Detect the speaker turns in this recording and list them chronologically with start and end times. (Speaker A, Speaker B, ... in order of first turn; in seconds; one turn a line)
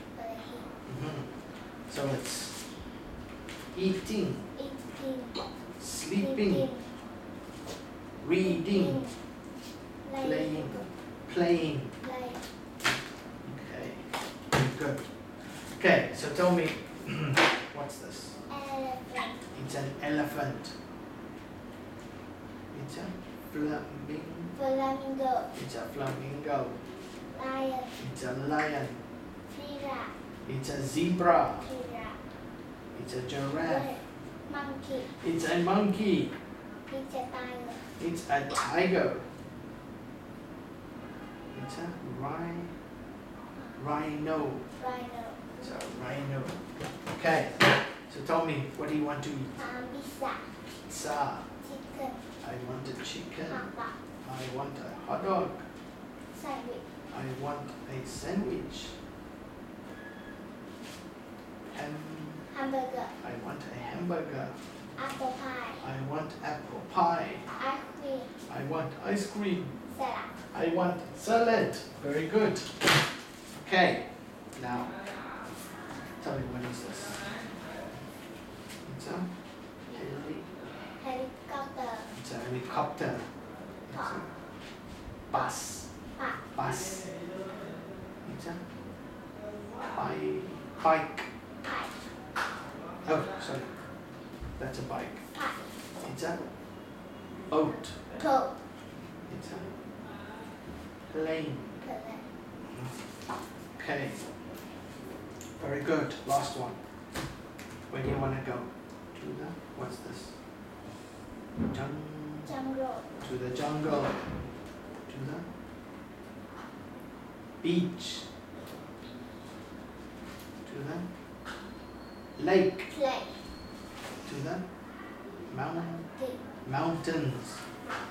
Speaker A: 0.1-0.7
Speaker B: 0.8-2.6
Speaker B: 3.7-4.5
Speaker A: 4.5-5.4
Speaker B: 5.8-6.7
Speaker A: 6.1-6.9
Speaker B: 8.2-9.1
Speaker A: 8.4-9.2
Speaker A: 10.0-10.9
Speaker B: 10.2-12.0
Speaker A: 12.0-12.5
Speaker B: 13.4-18.4
Speaker A: 18.5-19.4
Speaker B: 19.5-20.8
Speaker B: 22.7-24.5
Speaker A: 24.5-25.5
Speaker B: 25.5-26.9
Speaker A: 27.3-28.0
Speaker B: 28.0-29.0
Speaker A: 29.5-30.1
Speaker B: 30.4-31.7
Speaker A: 31.6-32.2
Speaker B: 32.9-33.9
Speaker A: 33.6-35.1
Speaker B: 35.0-36.4
Speaker A: 36.9-37.9
Speaker B: 37.9-39.3
Speaker B: 41.5-42.8
Speaker A: 43.5-43.8
Speaker B: 43.8-44.7
Speaker A: 44.8-45.8
Speaker B: 45.6-49.6
Speaker A: 49.6-50.6
Speaker B: 50.8-51.5
Speaker A: 51.6-52.3
Speaker B: 52.4-53.7
Speaker A: 53.5-54.0
Speaker B: 54.2-55.7
Speaker A: 56.3-56.8
Speaker B: 57.1-59.0
Speaker B: 61.7-62.5
Speaker A: 62.5-63.1
Speaker B: 63.2-64.6
Speaker A: 65.0-65.8
Speaker B: 65.8-67.5
Speaker A: 67.6-68.4
Speaker B: 68.5-69.8
Speaker A: 69.8-70.4
Speaker B: 70.5-72.8
Speaker B: 73.5-75.1
Speaker B: 76.2-77.4
Speaker B: 78.8-79.3
Speaker B: 79.9-80.5
Speaker A: 80.8-82.1
Speaker B: 82.1-83.3
Speaker B: 83.9-84.3
Speaker A: 83.9-84.3
Speaker B: 85.3-85.9
Speaker A: 86.2-86.4
Speaker B: 86.5-87.2
Speaker B: 88.2-88.6
Speaker B: 89.9-91.3
Speaker A: 91.6-92.0
Speaker B: 93.0-93.8
Speaker B: 94.6-95.3
Speaker A: 95.3-95.7
Speaker B: 96.0-96.4
Speaker B: 97.5-98.0
Speaker A: 98.1-98.6
Speaker B: 99.2-99.7
Speaker B: 101.0-101.8
Speaker A: 101.8-102.3
Speaker B: 102.7-103.1
Speaker B: 103.7-104.2
Speaker B: 105.6-106.8
Speaker B: 107.9-110.4
Speaker B: 111.7-112.5
Speaker A: 112.5-113.1
Speaker B: 113.2-114.3
Speaker B: 115.1-115.5
Speaker B: 117.6-118.3
Speaker B: 120.6-121.1
Speaker B: 122.4-122.9
Speaker A: 122.9-123.5
Speaker B: 124.2-124.7
Speaker B: 125.5-126.1
Speaker A: 125.8-126.4
Speaker B: 126.6-127.7